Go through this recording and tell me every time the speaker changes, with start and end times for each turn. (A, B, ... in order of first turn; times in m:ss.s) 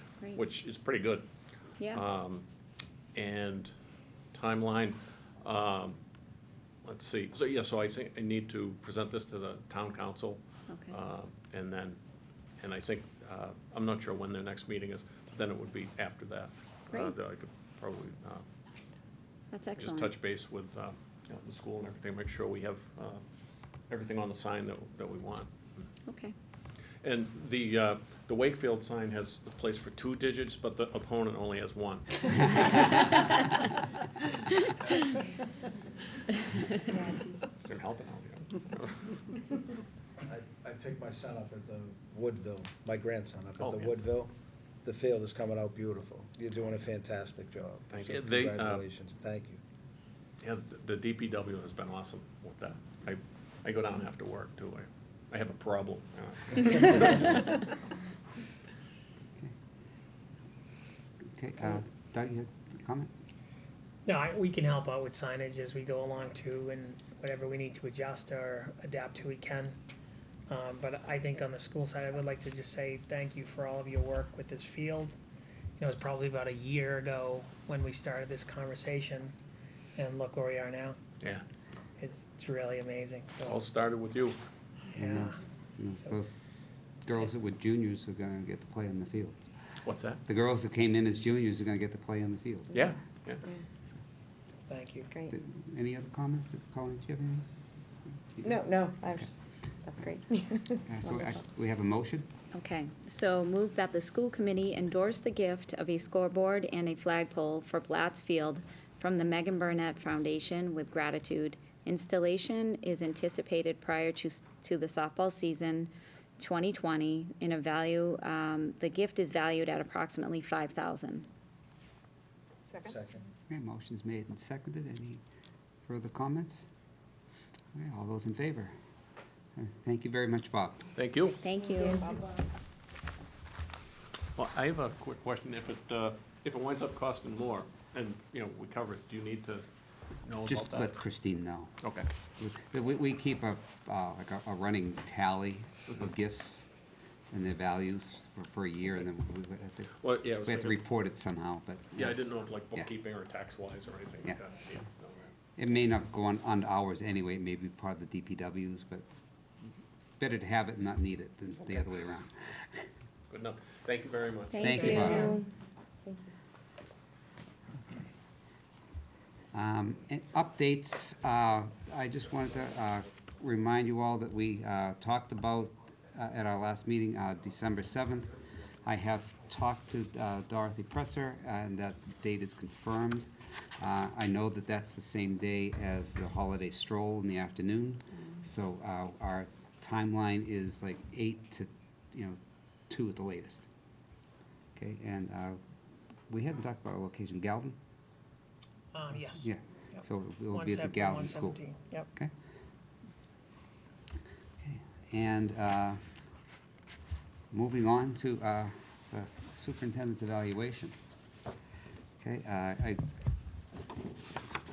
0:00.3-0:01.3 A
0:01.9-0:02.4 A
0:03.1-0:03.7 A
0:04.3-0:06.0 A
0:06.8-0:12.0 A
0:10.7-0:10.9 B
0:12.6-0:18.4 A
0:19.5-0:20.1 B
0:19.8-0:23.2 A
0:23.9-0:25.8 A
0:26.0-0:26.3 B
0:27.0-0:32.8 A
0:36.9-0:37.4 C
0:37.6-0:39.3 A
0:40.2-0:44.3 D
0:43.6-0:43.9 A
0:44.8-0:49.6 D
0:47.9-0:48.8 A
0:50.4-0:57.5 A
1:01.3-1:03.1 E
1:04.0-1:09.7 F
1:10.5-1:15.2 F
1:15.8-1:19.3 F
1:20.0-1:21.0 F
1:22.0-1:23.6 F
1:23.4-1:24.4 A
1:24.9-1:25.4 F
1:24.9-1:26.3 E
1:27.0-1:29.4 E
1:29.8-1:30.2 A
1:30.2-1:32.7 E
1:32.7-1:33.4 A
1:34.7-1:35.0 F
1:35.0-1:35.3 C
1:35.3-1:37.5 E
1:38.4-1:41.3 C
1:40.8-1:42.3 E
1:42.5-2:01.3 B
2:02.6-2:03.0 C
2:02.8-2:03.3 D
2:03.5-2:05.2 E
2:05.8-2:06.6 E
2:07.7-2:08.7 E
2:09.6-2:10.9 E
2:11.0-2:11.4 A
2:11.4-2:12.1 B
2:11.5-2:12.5 C
2:14.4-2:19.6 A
2:20.2-2:20.9 A
2:20.5-2:21.8 E
2:21.8-2:22.1 A
2:22.4-2:26.7 E
2:27.3-2:32.2 E
2:30.0-2:30.8 A
2:32.0-2:35.3 A
2:35.6-2:39.0 E
2:40.2-2:42.4 E
2:43.3-2:45.1 A
2:44.5-2:45.5 B
2:44.6-2:45.2 E
2:44.9-2:45.4 C
2:46.0-2:46.4 C
2:49.5-3:03.3 E
3:03.8-3:12.4 E
3:12.9-3:13.6 E
3:14.8-3:15.6 E
3:16.3-3:17.8 E
3:18.9-3:22.1 F
3:19.2-3:21.6 E
3:24.6-3:26.0 E
3:27.5-3:30.9 E
3:32.2-3:33.0 E